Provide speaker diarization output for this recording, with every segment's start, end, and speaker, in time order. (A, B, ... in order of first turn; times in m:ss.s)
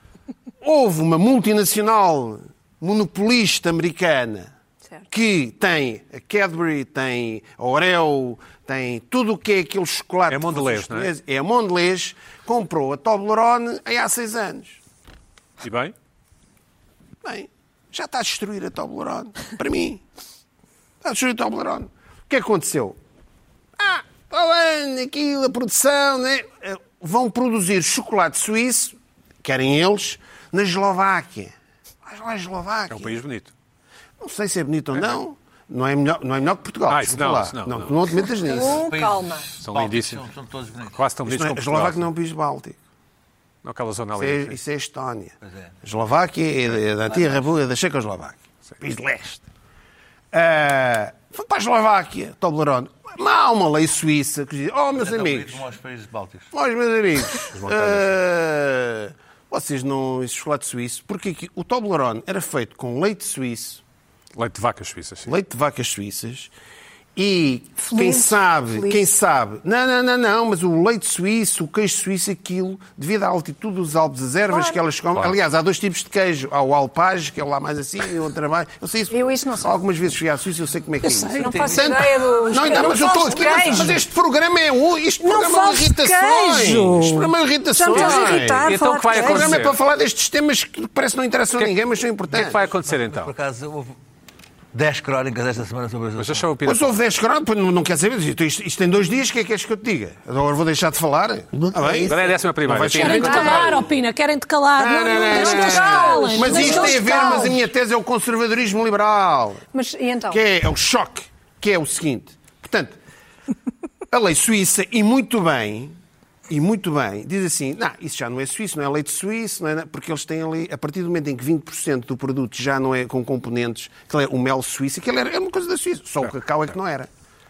0:00.6-0:04.5 A
0:05.1-0:14.8 A
0:10.3-0:11.1 B
0:15.6-0:15.9 B
0:17.2-0:20.0 A
0:21.0-0:23.0 A
0:23.8-0:31.5 A
0:32.0-0:33.2 A
0:32.9-0:33.5 B
0:34.2-0:38.8 A
0:36.9-0:38.2 B
0:38.4-0:39.5 C
0:38.6-0:41.0 D
0:39.6-0:40.2 B
0:40.9-0:42.0 B
0:41.2-0:42.8 A
0:43.6-0:44.6 B
0:44.2-0:49.4 A
0:45.4-0:45.7 D
0:50.3-0:55.6 A
0:55.0-0:56.5 D
0:56.5-1:03.8 A
0:57.5-0:58.2 B
1:04.4-1:05.3 B
1:05.3-1:06.5 A
1:07.2-1:32.6 A
1:07.8-1:09.0 C
1:14.5-1:14.8 C
1:19.1-1:19.8 C
1:21.0-1:21.7 E
1:21.4-1:24.0 C
1:21.4-1:22.1 D
1:23.4-1:23.8 E
1:25.2-1:29.6 C
1:27.9-1:29.8 B
1:32.3-1:33.3 B
1:32.8-1:34.0 D
1:34.7-1:36.5 D
1:36.2-1:37.0 B
1:36.6-1:43.8 A
1:41.7-1:42.1 D
1:42.0-1:43.8 B
1:42.9-1:47.6 E
1:43.2-1:43.7 C
1:44.8-1:49.6 A
1:45.1-1:47.6 C
1:49.7-1:50.4 C
1:50.3-1:53.0 A
1:54.1-1:55.9 A
1:56.5-2:07.1 A